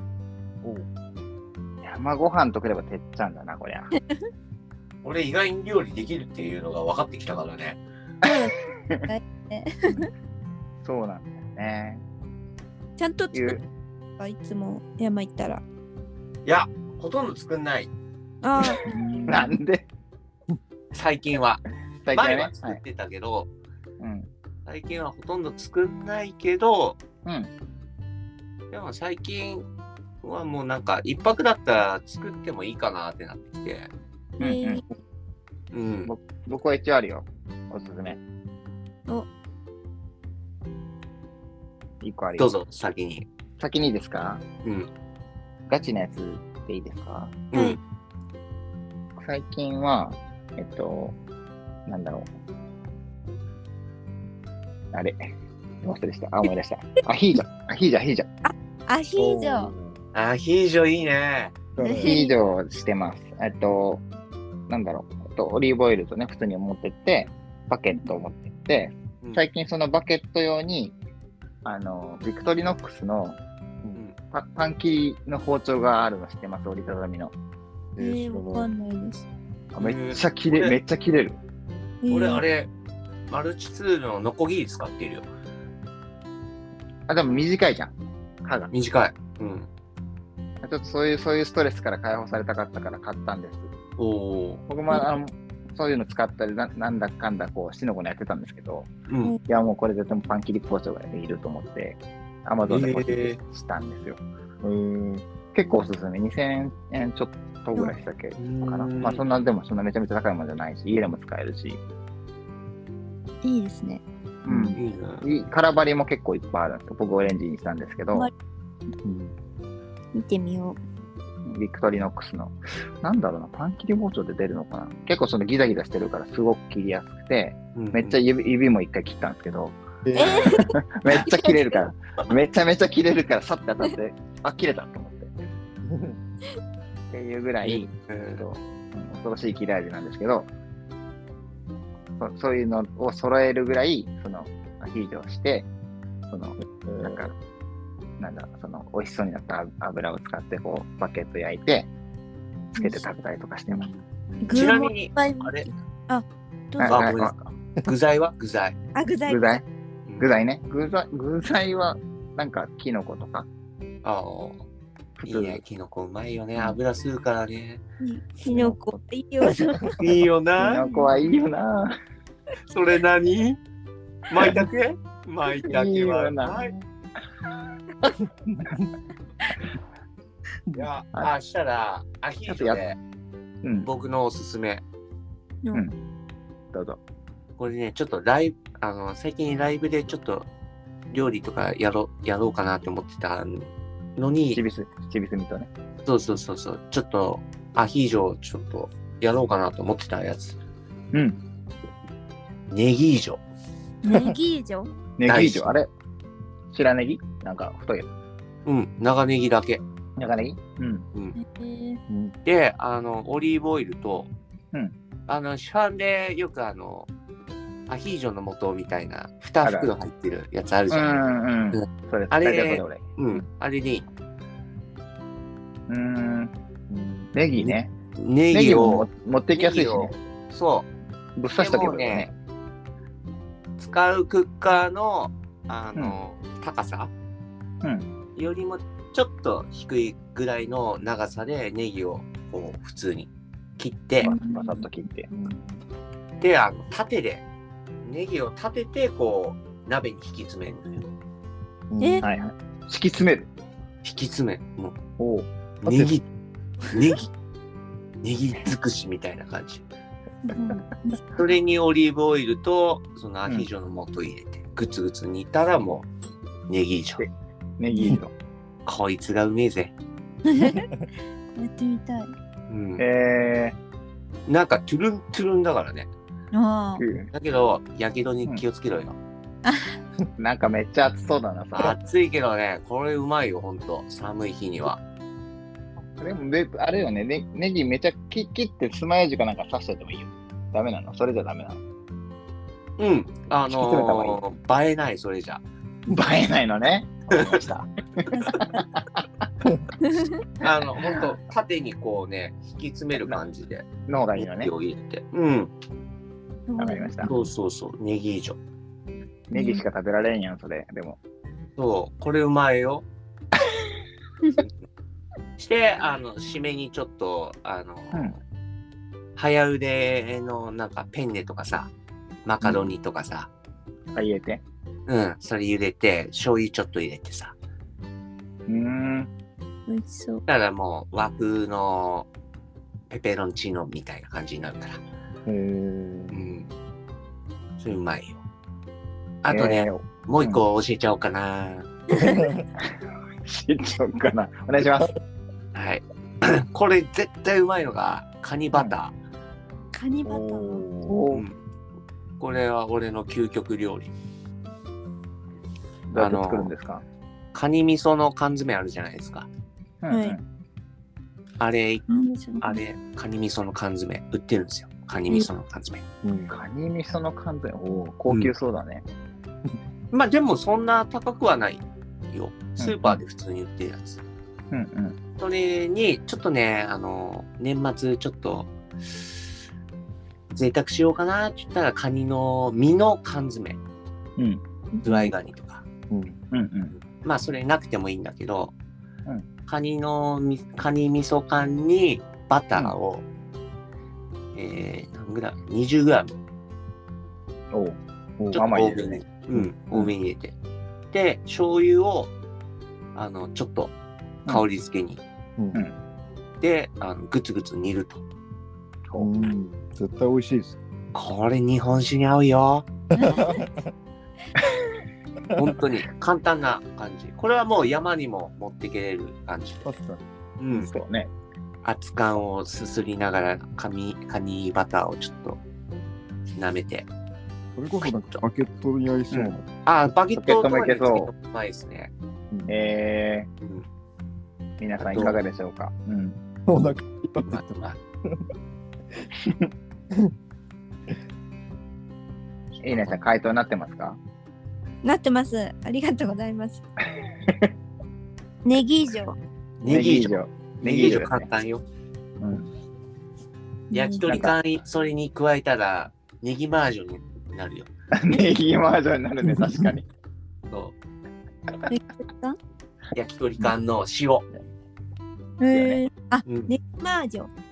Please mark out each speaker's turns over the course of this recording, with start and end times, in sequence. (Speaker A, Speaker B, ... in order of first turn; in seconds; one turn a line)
Speaker A: 1.8-3.9
Speaker B: 5.0-7.8
Speaker C: 8.2-10.1
Speaker A: 8.8-9.1
Speaker A: 10.8-12.0
Speaker C: 13.0-13.6
Speaker A: 13.3-13.6
Speaker C: 14.2-15.6
Speaker B: 16.4-17.9
Speaker C: 18.4-19.4
Speaker A: 18.8-19.9
Speaker B: 20.9-21.6
Speaker A: 22.0-22.8
Speaker B: 22.1-23.5
Speaker A: 24.0-24.3
Speaker B: 24.6-27.0
Speaker A: 27.2-27.5
Speaker B: 28.7-29.6
Speaker B: 30.2-33.9
Speaker A: 34.4-34.8
Speaker C: 34.4-34.8
Speaker B: 35.7-36.1
Speaker A: 36.0-38.2
Speaker A: 42.0-42.5
Speaker B: 42.4-43.3
Speaker A: 43.6-44.4
Speaker B: 44.6-44.9
Speaker A: 45.7-47.4
Speaker B: 47.5-47.8
Speaker C: 47.5-47.8
Speaker A: 49.2-51.1
Speaker A: 51.9-52.3
Speaker A: 54.9-55.3
Speaker A: 55.8-58.3
Speaker C: 58.4-59.7
Speaker D: 59.2-60.0
Speaker B: 60.1-61.5
Speaker D: 61.8-62.1
Speaker C: 61.8-62.4
Speaker A: 62.0-64.0
Speaker A: 64.7-71.0
Speaker A: 71.6-73.4
Speaker A: 74.3-77.3
Speaker D: 78.0-78.7
Speaker C: 78.0-79.3
Speaker A: 79.7-81.4
Speaker B: 79.8-80.8
Speaker C: 82.0-82.4
Speaker B: 82.1-82.7
Speaker B: 83.3-85.3
Speaker A: 87.1-88.7
Speaker B: 88.7-89.7
Speaker A: 90.6-93.7
Speaker B: 94.0-94.6
Speaker A: 94.7-98.9
Speaker B: 99.1-99.3
Speaker A: 99.4-104.2
Speaker B: 102.7-103.4
Speaker D: 104.6-105.2
Speaker A: 105.5-111.8
Speaker B: 108.3-109.2
Speaker C: 113.4-114.0
Speaker A: 114.4-118.3
Speaker D: 114.5-114.8
Speaker B: 114.8-115.2
Speaker D: 119.0-119.3
Speaker C: 120.1-120.8
Speaker A: 121.5-135.3
Speaker B: 127.7-128.2
Speaker D: 130.0-130.6
Speaker C: 130.1-131.6
Speaker D: 135.8-136.2
Speaker A: 137.1-140.5
Speaker B: 137.6-138.4
Speaker A: 142.2-145.7
Speaker A: 146.3-147.3
Speaker D: 146.8-147.3
Speaker A: 148.2-151.9
Speaker A: 152.7-153.9
Speaker C: 152.8-153.0
Speaker D: 153.7-154.7
Speaker C: 154.4-157.1
Speaker B: 154.5-155.7
Speaker A: 156.8-157.5
Speaker B: 156.8-158.8
Speaker C: 158.9-159.6
Speaker A: 159.3-159.6
Speaker A: 160.2-163.5
Speaker B: 164.0-164.6
Speaker A: 165.2-165.6
Speaker B: 165.2-167.8
Speaker C: 168.0-170.0
Speaker A: 168.4-168.9
Speaker B: 170.0-170.9
Speaker A: 170.6-171.9
Speaker B: 172.7-173.6
Speaker B: 174.3-176.7
Speaker A: 175.7-176.8
Speaker B: 180.7-182.9
Speaker A: 182.5-182.8
Speaker A: 183.6-183.9
Speaker B: 183.7-184.8
Speaker A: 186.7-187.0
Speaker B: 187.6-190.5
Speaker B: 191.1-194.6
Speaker A: 194.5-195.7
Speaker B: 196.0-200.6
Speaker A: 201.1-201.4
Speaker B: 202.7-203.4
Speaker C: 204.0-204.9
Speaker D: 204.1-204.3
Speaker A: 205.2-205.9
Speaker B: 205.2-205.7
Speaker A: 206.7-208.1
Speaker B: 208.7-209.8
Speaker A: 210.2-211.1
Speaker C: 211.3-212.0
Speaker D: 212.1-212.3
Speaker B: 212.4-214.3
Speaker B: 215.3-217.1
Speaker B: 217.9-224.1
Speaker A: 219.6-219.9
Speaker A: 220.9-223.4
Speaker A: 225.9-226.5
Speaker D: 226.9-227.2
Speaker A: 227.3-227.9
Speaker B: 227.6-230.9
Speaker A: 228.5-230.1
Speaker A: 231.4-232.3
Speaker B: 231.6-232.3
Speaker B: 233.8-237.1
Speaker B: 238.3-244.3
Speaker C: 244.2-244.8
Speaker A: 244.2-245.3
Speaker D: 245.3-245.6
Speaker B: 246.4-247.4
Speaker B: 248.0-251.1
Speaker D: 251.9-252.3
Speaker C: 252.0-252.2
Speaker A: 252.2-253.5
Speaker B: 254.0-254.9
Speaker A: 255.2-255.5
Speaker B: 255.8-256.2
Speaker D: 255.8-256.1
Speaker B: 256.9-257.3
Speaker B: 258.2-259.8
Speaker C: 260.4-261.3
Speaker B: 261.3-266.1
Speaker B: 266.7-267.2
Speaker A: 267.2-268.3
Speaker C: 267.9-268.2
Speaker B: 268.8-269.9
Speaker C: 270.5-270.9
Speaker C: 271.5-272.3
Speaker B: 272.7-273.1
Speaker A: 273.0-273.8
Speaker B: 274.5-276.1
Speaker C: 276.5-277.0
Speaker A: 277.0-277.3
Speaker B: 277.3-279.1
Speaker C: 279.6-280.0
Speaker A: 280.4-281.9
Speaker B: 281.7-285.0
Speaker A: 286.2-291.8
Speaker B: 293.0-295.6
Speaker A: 293.6-294.4
Speaker A: 296.1-299.0
Speaker B: 297.3-297.6
Speaker C: 298.3-298.8
Speaker C: 300.0-300.4
Speaker B: 300.6-305.7
Speaker A: 304.1-304.7
Speaker C: 306.7-307.4
Speaker A: 306.8-307.3
Speaker B: 307.2-308.6
Speaker A: 309.5-311.2
Speaker C: 309.5-309.8
Speaker B: 311.8-313.0
Speaker B: 315.6-318.4
Speaker B: 319.4-321.9
Speaker B: 322.4-323.5
Speaker A: 322.6-322.9
Speaker A: 324.1-324.6
Speaker B: 325.1-327.5
Speaker A: 328.7-329.3
Speaker C: 329.9-330.4
Speaker B: 330.5-332.3
Speaker B: 333.1-335.0
Speaker D: 335.4-336.4
Speaker B: 336.3-336.7
Speaker B: 337.8-338.4
Speaker B: 339.4-341.9
Speaker A: 339.5-340.6
Speaker D: 342.2-342.6
Speaker A: 343.4-345.1
Speaker B: 345.7-349.1
Speaker C: 349.9-350.9
Speaker D: 350.2-351.2
Speaker A: 351.1-351.4
Speaker B: 352.4-354.1
Speaker A: 356.1-357.0
Speaker B: 356.1-356.7
Speaker B: 357.5-359.5
Speaker A: 360.0-360.4
Speaker C: 360.1-360.4
Speaker B: 361.6-366.0
Speaker C: 362.1-362.8
Speaker D: 366.2-366.5
Speaker A: 366.5-369.0
Speaker B: 370.1-374.2
Speaker A: 372.8-373.2
Speaker A: 374.7-375.2
Speaker B: 375.4-379.3
Speaker B: 380.5-383.8
Speaker C: 384.9-385.3
Speaker B: 385.0-385.8
Speaker D: 386.1-386.4
Speaker A: 386.5-386.9
Speaker B: 387.0-388.7
Speaker B: 389.7-393.2
Speaker B: 394.5-396.4
Speaker A: 397.7-398.0
Speaker B: 398.5-400.6
Speaker A: 398.5-399.2
Speaker D: 399.5-400.1
Speaker B: 401.1-402.3
Speaker B: 403.1-403.9
Speaker B: 404.5-405.2
Speaker B: 406.6-408.2
Speaker A: 409.1-409.5
Speaker D: 409.1-410.8
Speaker B: 411.1-412.9
Speaker C: 413.1-413.6
Speaker D: 413.2-413.8
Speaker D: 415.5-415.8
Speaker B: 415.5-419.8
Speaker D: 419.8-420.2
Speaker B: 420.6-420.9
Speaker A: 420.7-421.3
Speaker B: 421.8-425.6
Speaker B: 426.6-427.1
Speaker D: 427.7-429.6
Speaker A: 429.3-429.6
Speaker B: 429.9-432.1
Speaker A: 430.4-431.3
Speaker A: 432.7-433.5
Speaker B: 433.6-433.9
Speaker A: 434.8-436.4
Speaker B: 435.1-435.4
Speaker D: 436.7-437.6
Speaker B: 437.4-438.0
Speaker A: 439.4-439.7
Speaker A: 442.8-444.2
Speaker B: 442.8-443.1
Speaker C: 445.0-446.8
Speaker C: 448.6-449.4
Speaker B: 449.8-451.8
Speaker A: 449.9-451.5
Speaker A: 452.4-452.7
Speaker C: 453.9-454.5
Speaker B: 453.9-457.9
Speaker A: 454.2-454.6
Speaker A: 458.1-460.1
Speaker C: 461.9-462.6
Speaker B: 463.1-464.4
Speaker C: 465.6-467.5
Speaker A: 465.7-466.0
Speaker B: 466.4-466.7